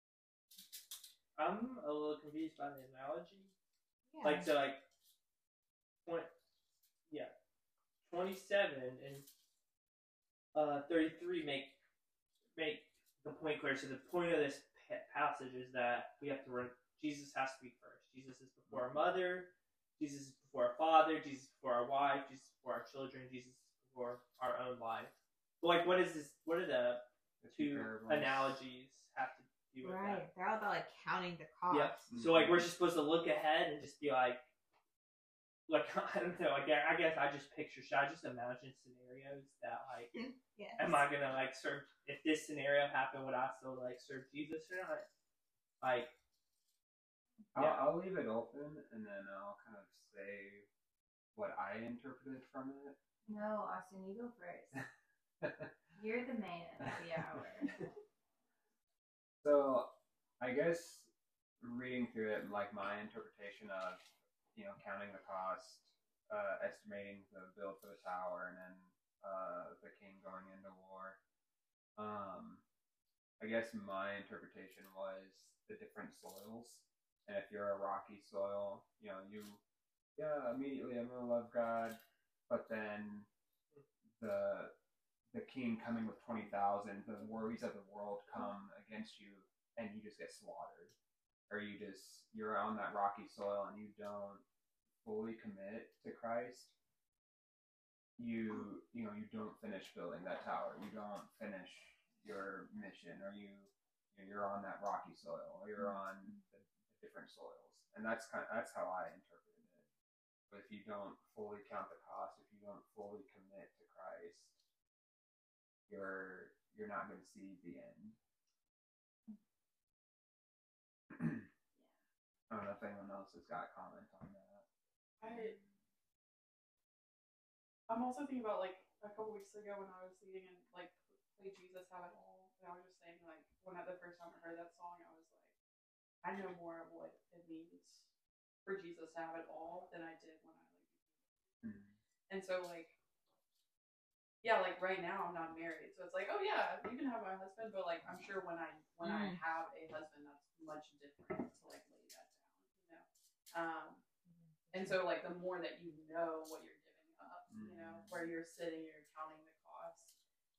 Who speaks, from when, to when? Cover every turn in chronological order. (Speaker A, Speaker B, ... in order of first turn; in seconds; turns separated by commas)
Speaker A: 1.4-3.5, Speaker B: 4.1-4.5, Speaker A: 4.2-4.8, Speaker A: 6.0-6.3, Speaker A: 7.1-7.3, Speaker A: 8.0-9.3, Speaker A: 10.5-11.8, Speaker A: 12.5-30.2, Speaker C: 27.4-28.6, Speaker B: 29.8-32.1, Speaker A: 31.7-34.5, Speaker C: 32.1-32.7, Speaker A: 35.7-40.1, Speaker B: 40.1-41.0, Speaker A: 40.8-45.1, Speaker A: 45.8-46.1, Speaker C: 47.5-50.6, Speaker A: 47.5-47.9, Speaker C: 51.3-53.0, Speaker D: 53.2-54.8, Speaker C: 55.4-55.7, Speaker D: 55.9-57.7, Speaker C: 59.4-61.1, Speaker C: 61.6-71.2, Speaker C: 72.0-72.6, Speaker C: 73.4-79.6, Speaker C: 80.2-83.3, Speaker C: 84.2-84.7, Speaker C: 85.3-90.9, Speaker C: 91.5-94.4, Speaker C: 95.0-96.7, Speaker C: 98.2-109.8, Speaker C: 110.5-114.5, Speaker C: 115.9-118.2, Speaker C: 121.1-121.4, Speaker C: 122.5-124.6, Speaker E: 125.2-125.6, Speaker E: 127.9-135.5, Speaker E: 136.2-138.1, Speaker E: 138.6-141.3, Speaker C: 141.6-141.9, Speaker E: 142.3-142.9, Speaker E: 144.4-154.0, Speaker B: 149.0-149.4, Speaker B: 154.3-155.2, Speaker E: 154.7-160.2, Speaker C: 157.5-158.0